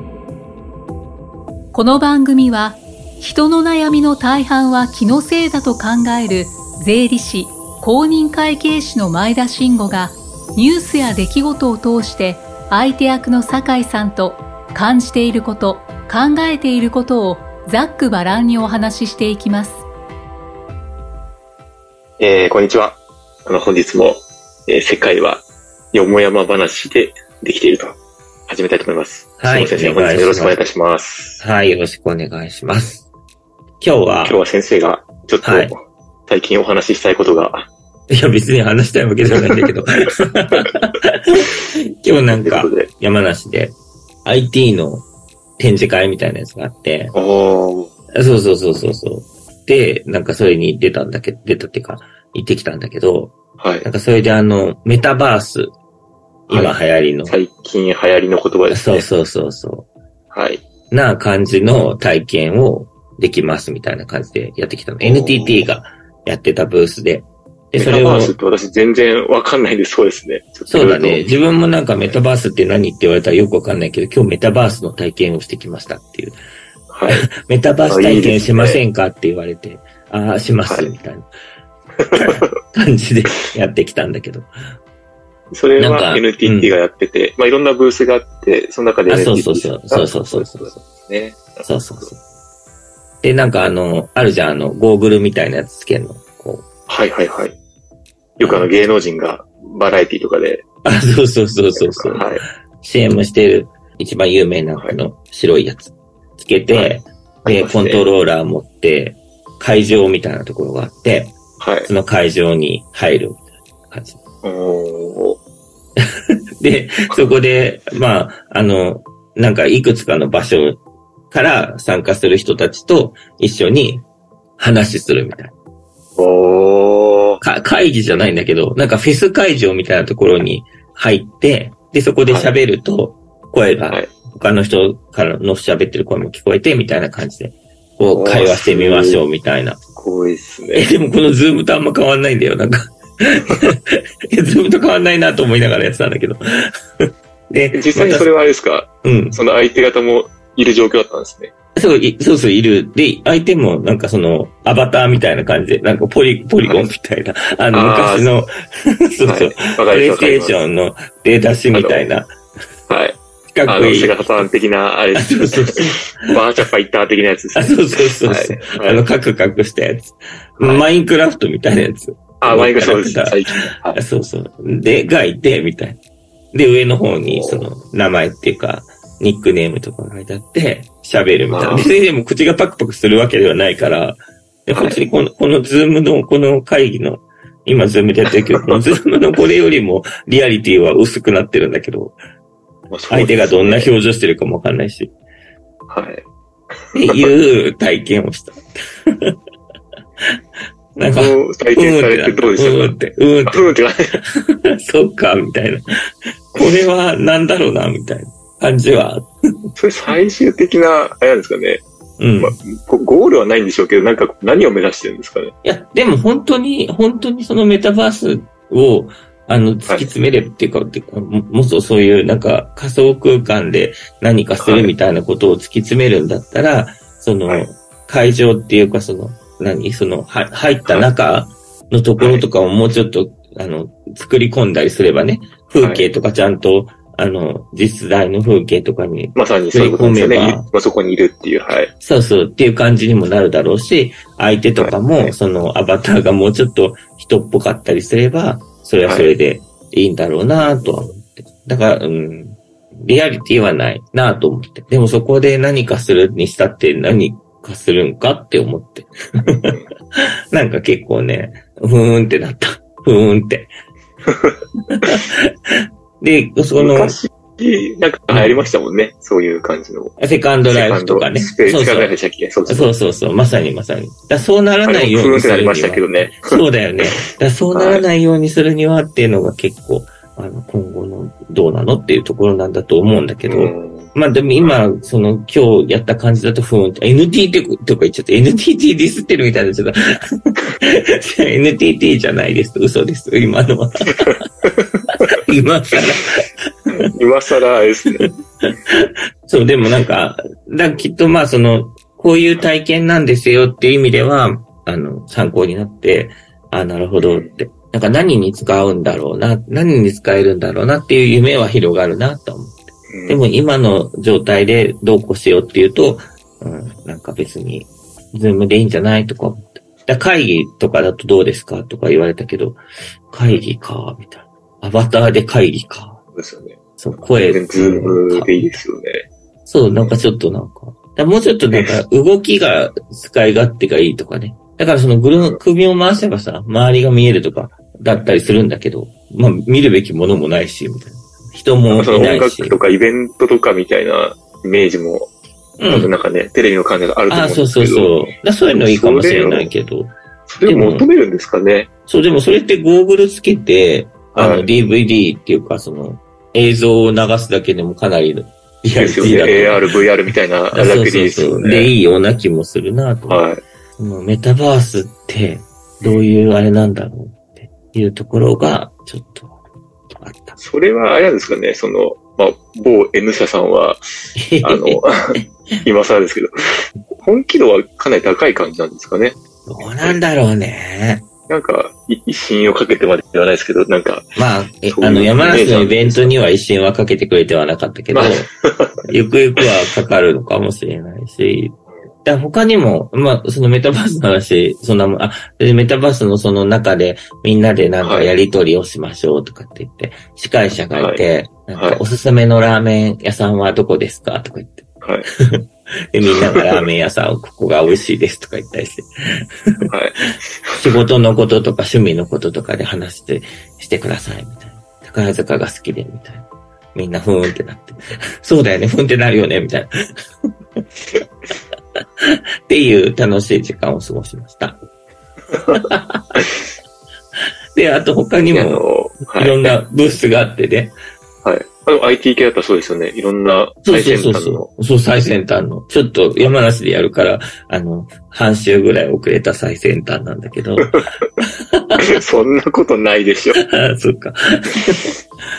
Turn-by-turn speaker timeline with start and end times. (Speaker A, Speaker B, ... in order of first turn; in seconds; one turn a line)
Speaker A: 1.7-19.8
Speaker B: 22.2-31.4
Speaker C: 29.4-30.6
Speaker C: 31.4-33.1
Speaker C: 33.8-34.4
Speaker B: 34.2-37.7
Speaker C: 35.4-35.7
Speaker C: 38.1-45.1
Speaker B: 42.3-42.9
Speaker C: 45.6-47.1
Speaker B: 47.1-47.9
Speaker C: 48.1-55.7
Speaker B: 53.6-53.9
Speaker C: 56.5-57.4
Speaker B: 56.5-59.1
Speaker C: 58.7-59.9
Speaker B: 60.3-60.6
Speaker C: 60.9-68.3
Speaker B: 65.0-65.7
Speaker B: 67.8-71.3
Speaker C: 70.7-76.4
Speaker B: 76.9-77.3
Speaker C: 77.2-81.3
Speaker B: 77.9-78.8
Speaker B: 80.7-80.9
Speaker B: 82.0-82.5
Speaker C: 82.2-84.5
Speaker B: 85.5-92.1
Speaker C: 85.8-86.7
Speaker C: 89.1-90.8
Speaker C: 91.6-92.2
Speaker C: 93.2-96.7
Speaker B: 96.9-97.5
Speaker B: 98.4-100.6
Speaker C: 98.4-98.7
Speaker C: 100.8-113.4
Speaker B: 101.8-102.4
Speaker B: 106.7-108.0
Speaker B: 111.6-111.9
Speaker C: 113.9-114.2
Speaker B: 114.4-115.4
Speaker C: 116.6-124.0
Speaker C: 124.6-125.5
Speaker B: 126.2-127.4
Speaker C: 127.4-139.8
Speaker B: 132.3-132.5
Speaker B: 138.1-139.2
Speaker B: 139.9-140.9
Speaker C: 140.7-148.3
Speaker B: 147.7-151.5
Speaker C: 149.0-149.4
Speaker C: 151.7-162.3
Speaker B: 156.6-156.9
Speaker B: 157.7-158.3
Speaker B: 159.2-160.6
Speaker B: 161.7-162.1
Speaker B: 162.9-169.0
Speaker C: 163.5-164.5
Speaker C: 165.1-166.3
Speaker C: 167.6-173.4
Speaker B: 170.6-170.9
Speaker B: 172.4-174.0
Speaker C: 173.9-176.0
Speaker C: 176.5-192.2
Speaker B: 177.2-177.7
Speaker B: 181.5-182.0
Speaker B: 192.9-193.9
Speaker C: 193.1-195.1
Speaker B: 195.9-196.2
Speaker C: 196.9-199.4
Speaker B: 197.0-197.3
Speaker C: 200.9-209.3
Speaker B: 201.1-204.1
Speaker B: 209.8-211.8
Speaker C: 212.2-212.6
Speaker B: 212.4-215.5
Speaker C: 215.6-240.7
Speaker B: 224.6-224.9
Speaker B: 232.2-232.4
Speaker B: 235.8-236.1
Speaker B: 239.3-241.9
Speaker C: 242.0-263.8
Speaker B: 244.8-245.3
Speaker B: 249.0-249.3
Speaker B: 250.6-251.1
Speaker B: 264.2-265.2
Speaker C: 264.9-267.2
Speaker B: 266.7-270.2
Speaker C: 268.3-268.6
Speaker C: 270.2-272.1
Speaker B: 270.7-273.0
Speaker C: 272.7-294.5
Speaker B: 274.9-277.2
Speaker B: 277.7-278.0
Speaker B: 283.4-284.8
Speaker B: 294.2-295.2
Speaker C: 295.3-296.7
Speaker B: 296.9-298.3
Speaker C: 298.6-326.2
Speaker B: 307.2-307.5
Speaker B: 313.1-313.4
Speaker B: 326.3-329.2
Speaker C: 327.0-328.8
Speaker C: 329.6-342.8
Speaker B: 341.9-345.3
Speaker C: 345.8-346.1
Speaker B: 345.9-349.7
Speaker C: 347.3-351.1
Speaker B: 350.5-351.9
Speaker C: 352.1-359.8
Speaker B: 354.3-354.6
Speaker B: 358.9-361.9
Speaker C: 360.7-363.4
Speaker B: 363.3-363.6
Speaker C: 364.0-369.6
Speaker B: 366.0-366.3
Speaker C: 370.1-370.6
Speaker B: 370.6-374.0
Speaker C: 374.4-375.1
Speaker B: 374.6-380.2
Speaker C: 379.6-381.3
Speaker B: 381.5-384.3
Speaker C: 384.4-388.5
Speaker B: 384.9-386.4
Speaker B: 388.1-389.1
Speaker C: 389.0-409.9
Speaker B: 398.0-398.3
Speaker B: 400.9-401.2
Speaker B: 401.7-402.0
Speaker B: 405.0-405.3
Speaker B: 406.3-406.7
Speaker B: 409.9-410.8
Speaker C: 410.8-419.9
Speaker C: 422.0-424.8
Speaker B: 425.5-425.8
Speaker C: 425.7-426.4
Speaker C: 427.7-430.9
Speaker B: 428.5-429.8
Speaker B: 431.4-434.7
Speaker C: 433.8-442.0
Speaker B: 440.8-441.2
Speaker B: 442.0-443.6
Speaker C: 443.6-445.1